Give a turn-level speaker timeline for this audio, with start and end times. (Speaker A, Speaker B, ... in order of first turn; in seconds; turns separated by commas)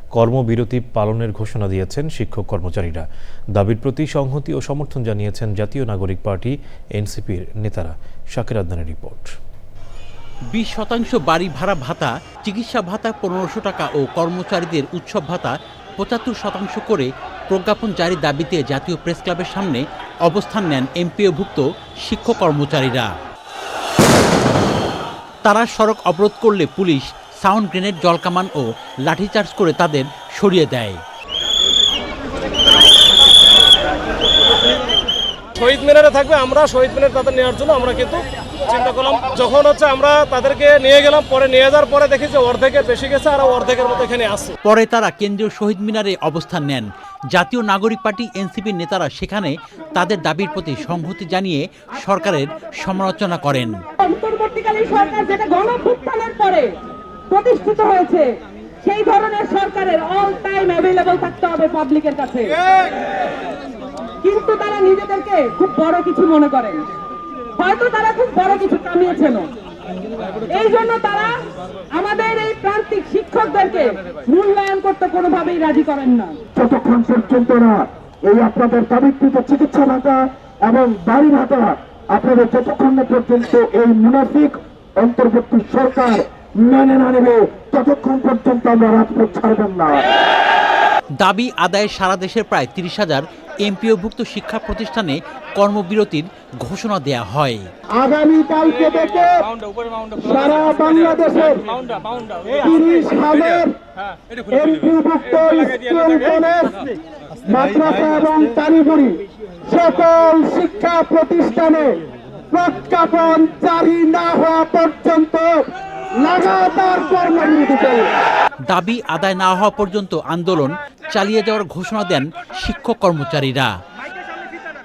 Speaker A: 0.1-9.3, Speaker B: 10.5-23.1, Speaker B: 25.4-31.0, Speaker C: 35.5-44.5, Speaker B: 44.6-53.8, Speaker D: 54.0-56.6, Speaker D: 57.3-58.2, Speaker D: 58.8-62.5, Speaker D: 64.2-66.8, Speaker D: 67.6-69.4, Speaker D: 70.6-71.3, Speaker D: 72.0-73.6, Speaker D: 74.3-76.2, Speaker E: 76.5-90.1, Speaker B: 91.2-97.7, Speaker E: 98.0-99.5, Speaker E: 100.0-101.7, Speaker E: 102.3-103.8, Speaker E: 104.5-106.8, Speaker E: 107.5-115.6, Speaker E: 116.2-118.1, Speaker B: 118.7-123.7